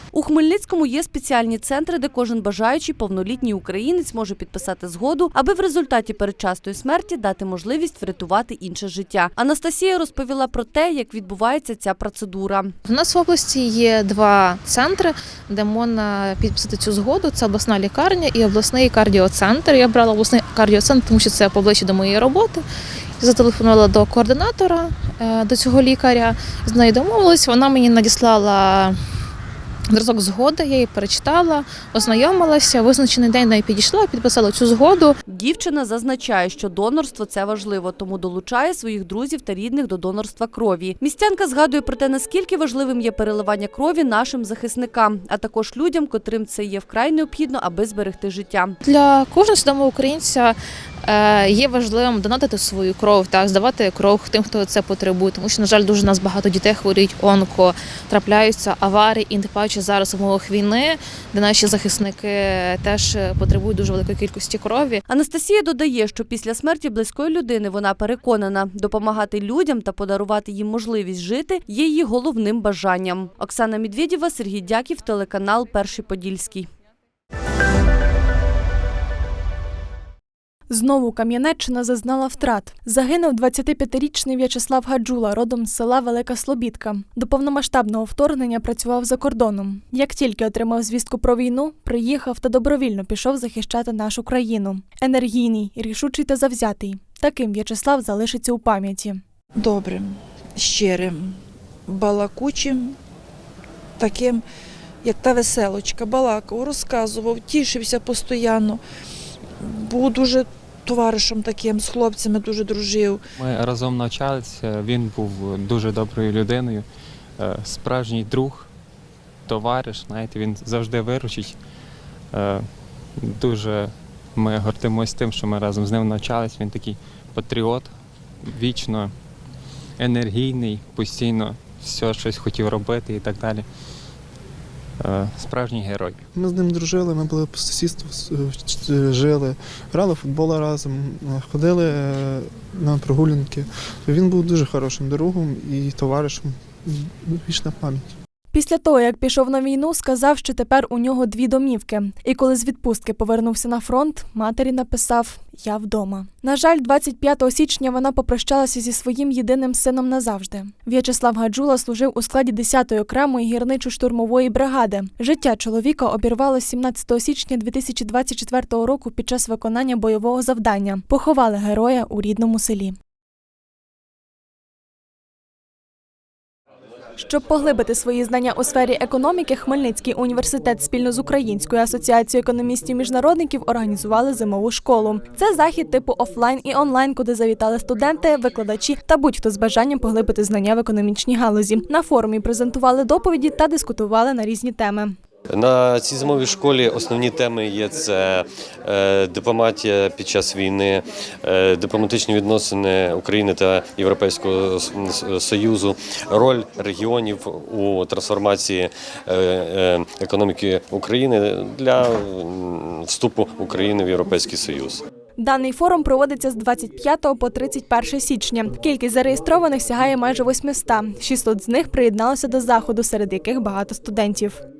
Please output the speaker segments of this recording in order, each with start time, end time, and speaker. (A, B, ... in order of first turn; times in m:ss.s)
0:00.1-0:12.7 A
0:12.9-0:22.6 B
0:23.2-0:29.0 B
0:29.9-0:35.2 B
0:35.3-0:48.8 A
0:48.8-1:05.0 B
1:05.1-1:16.7 A
1:20.7-1:39.2 C
1:39.6-1:43.0 D
1:44.0-1:44.4 D
1:45.0-1:48.8 D
1:49.6-1:53.2 D
1:53.4-1:56.9 E
1:57.4-1:58.7 E
1:59.5-2:01.6 E
2:02.3-2:07.9 E
2:08.4-2:09.1 E
2:10.0-2:13.7 E
2:15.0-2:16.2 E
2:16.3-2:28.1 F
2:28.5-2:53.0 C
2:57.2-3:15.2 C
3:15.5-3:35.0 G
3:35.4-3:44.6 C